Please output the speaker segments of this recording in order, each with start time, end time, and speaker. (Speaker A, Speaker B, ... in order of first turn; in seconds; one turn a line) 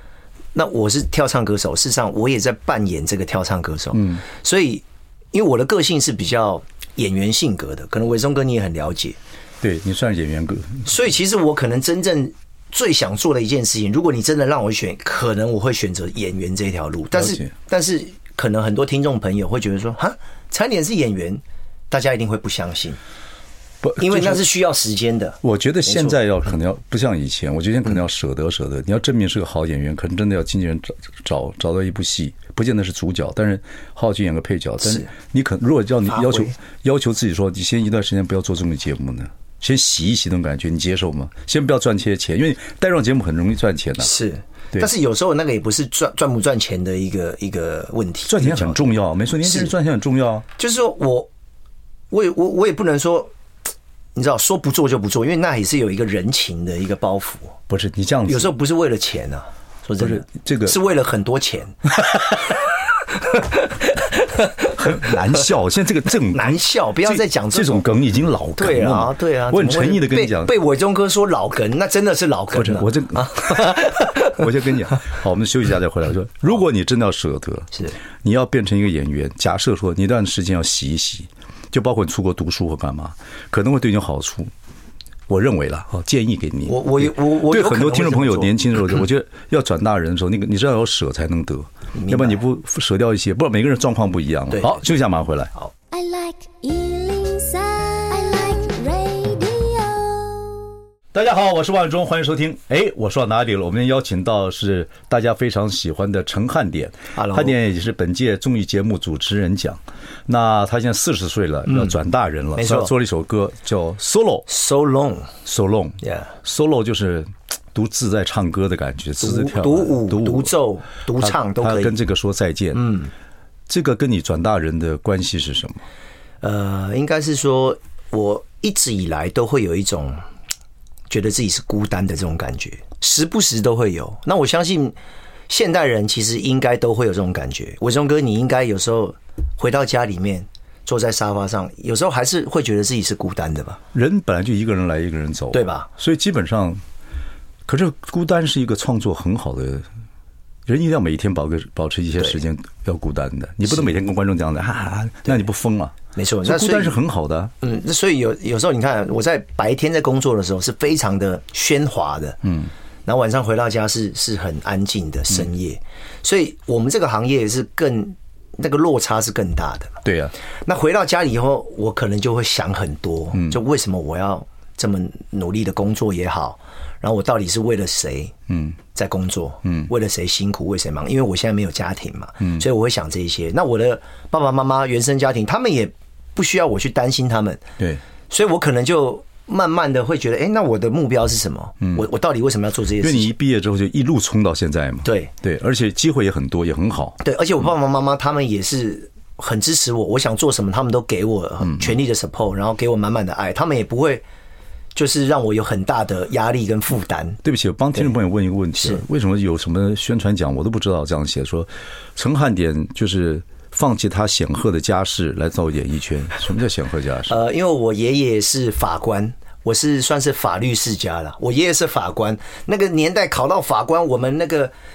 Speaker A: 0.5-9.2
Speaker B: 4.0-4.2
Speaker B: 9.6-10.9
Speaker A: 10.9-23.0
Speaker B: 17.1-17.5
Speaker B: 23.8-24.4
Speaker A: 24.0-26.2
Speaker B: 25.4-44.1
Speaker A: 36.1-36.5
Speaker A: 44.0-48.9
Speaker B: 48.3-50.5
Speaker A: 49.4-49.7
Speaker A: 50.6-51.3
Speaker A: 52.1-53.3
Speaker A: 54.1-57.6
Speaker B: 57.7-58.5
Speaker A: 58.3-62.6
Speaker B: 60.0-60.8
Speaker A: 63.2-65.4
Speaker B: 64.8-70.5
Speaker A: 66.3-67.9
Speaker A: 68.6-74.4
Speaker B: 72.5-84.5
Speaker B: 85.3-95.5
Speaker A: 86.7-88.5
Speaker A: 91.9-92.4
Speaker A: 94.5-94.8
Speaker C: 95.9-100.7
Speaker B: 101.1-114.5
Speaker A: 107.2-107.5
Speaker A: 112.6-112.9
Speaker A: 114.5-115.3
Speaker B: 115.5-120.5
Speaker A: 116.0-116.3
Speaker A: 119.2-122.0
Speaker B: 121.1-122.8
Speaker A: 122.7-123.1
Speaker B: 123.7-125.8
Speaker A: 126.4-130.2
Speaker A: 131.1-135.0
Speaker A: 135.5-143.8
Speaker B: 143.9-146.8
Speaker A: 145.5-145.9
Speaker B: 147.7-149.9
Speaker B: 150.7-157.5
Speaker A: 156.2-157.0
Speaker A: 157.6-162.4
Speaker B: 162.4-162.7
Speaker A: 163.1-170.0
Speaker B: 170.0-170.3
Speaker A: 170.7-178.3
Speaker B: 178.5-178.8
Speaker A: 178.9-187.6
Speaker B: 179.7-179.9
Speaker A: 188.3-193.3
Speaker B: 193.0-197.2
Speaker A: 195.1-195.3
Speaker A: 197.2-204.2
Speaker A: 204.9-207.4
Speaker B: 207.4-217.4
Speaker A: 208.8-209.0
Speaker A: 217.3-224.7